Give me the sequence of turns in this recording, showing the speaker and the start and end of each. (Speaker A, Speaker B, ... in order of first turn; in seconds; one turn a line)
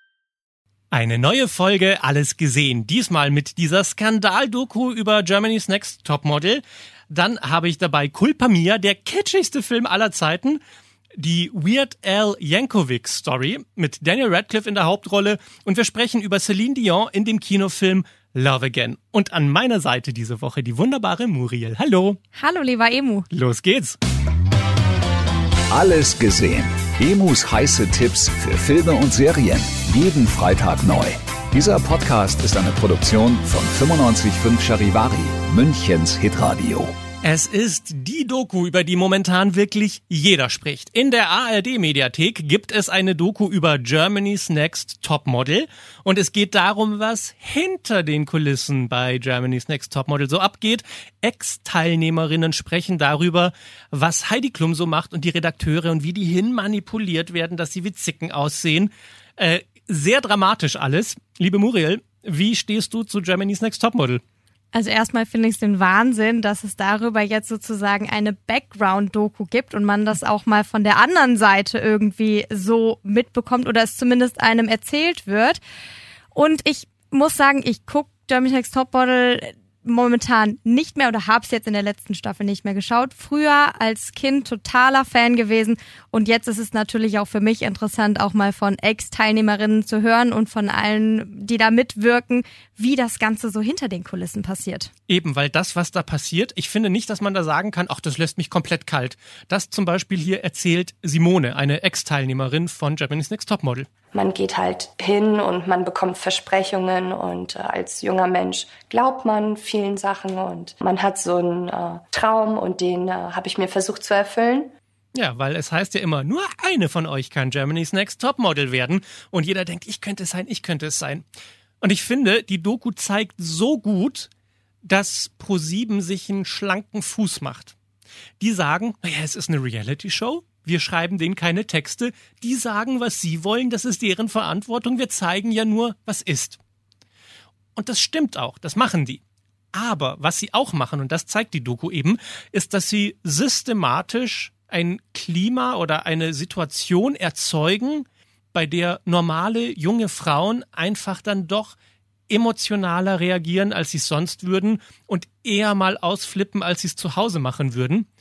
Speaker A: 0.9-10.6
Speaker A: 11.2-22.2
Speaker B: 22.3-23.3
Speaker A: 23.3-24.0
Speaker C: 25.7-36.9
Speaker A: 37.2-64.2
Speaker B: 64.7-75.6
Speaker B: 76.3-94.9
Speaker A: 95.1-103.9
Speaker D: 104.1-114.7
Speaker A: 115.1-121.2
Speaker A: 121.8-124.3
Speaker A: 124.8-127.7
Speaker A: 128.4-136.6
Speaker A: 137.8-139.2
Speaker A: 139.7-151.8
Speaker A: 152.3-158.1